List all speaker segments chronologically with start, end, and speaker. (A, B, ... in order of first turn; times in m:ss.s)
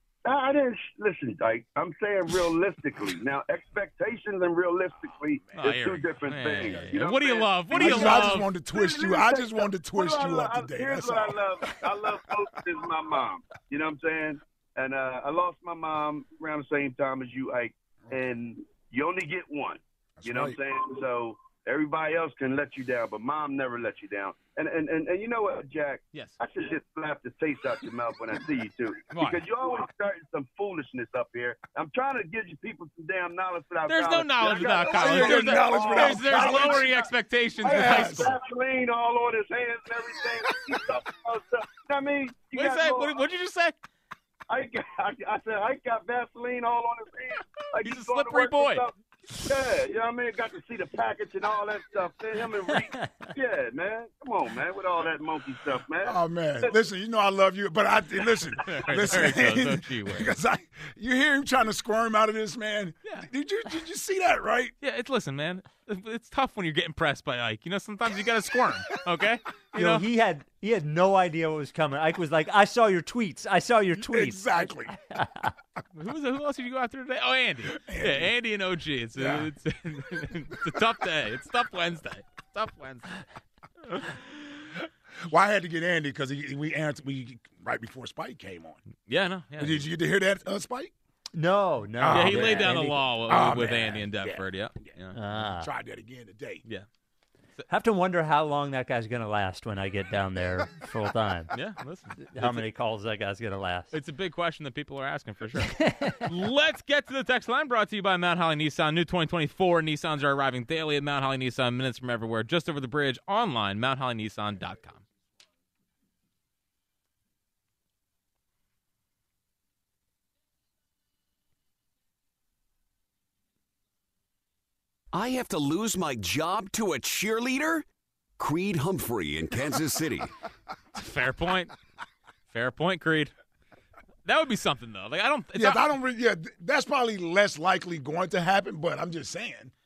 0:00.2-0:37.0 A
0:05.5-0:08.5 B
0:06.5-0:07.0 C
0:07.7-0:12.2 C
0:20.2-0:20.6 C
0:29.1-0:29.4 B
0:33.9-0:38.3 B
0:34.7-0:37.1 C
0:37.6-0:43.2 A
0:37.6-0:38.3 C
0:40.5-0:40.7 C
0:42.5-0:43.7 B
0:44.5-0:48.9 A
0:47.8-0:48.9 B
0:49.4-0:56.8 A
0:56.0-1:04.7 C
0:58.6-1:00.3 B
1:04.8-1:10.0 B
1:09.7-1:15.5 D
1:13.9-1:15.0 C
1:15.9-1:23.2 B
1:17.8-1:18.3 C
1:19.2-1:19.5 C
1:23.8-1:24.2 B
1:25.2-1:28.8 C
1:29.1-1:29.9 B
1:29.6-1:30.9 C
1:31.3-1:33.0 D
1:32.0-1:34.9 C
1:32.1-1:35.1 B
1:35.1-1:35.7 D
1:35.4-1:36.6 C
1:37.7-1:41.5 D
1:41.5-1:42.6 B
1:42.3-1:43.9 D
1:43.9-1:55.0 B
1:45.7-1:46.2 D
2:05.1-2:07.8 E
2:08.4-2:10.3 E
2:10.9-2:11.7 B
2:12.5-2:13.3 B
2:14.2-2:15.9 B
2:15.5-2:19.7 C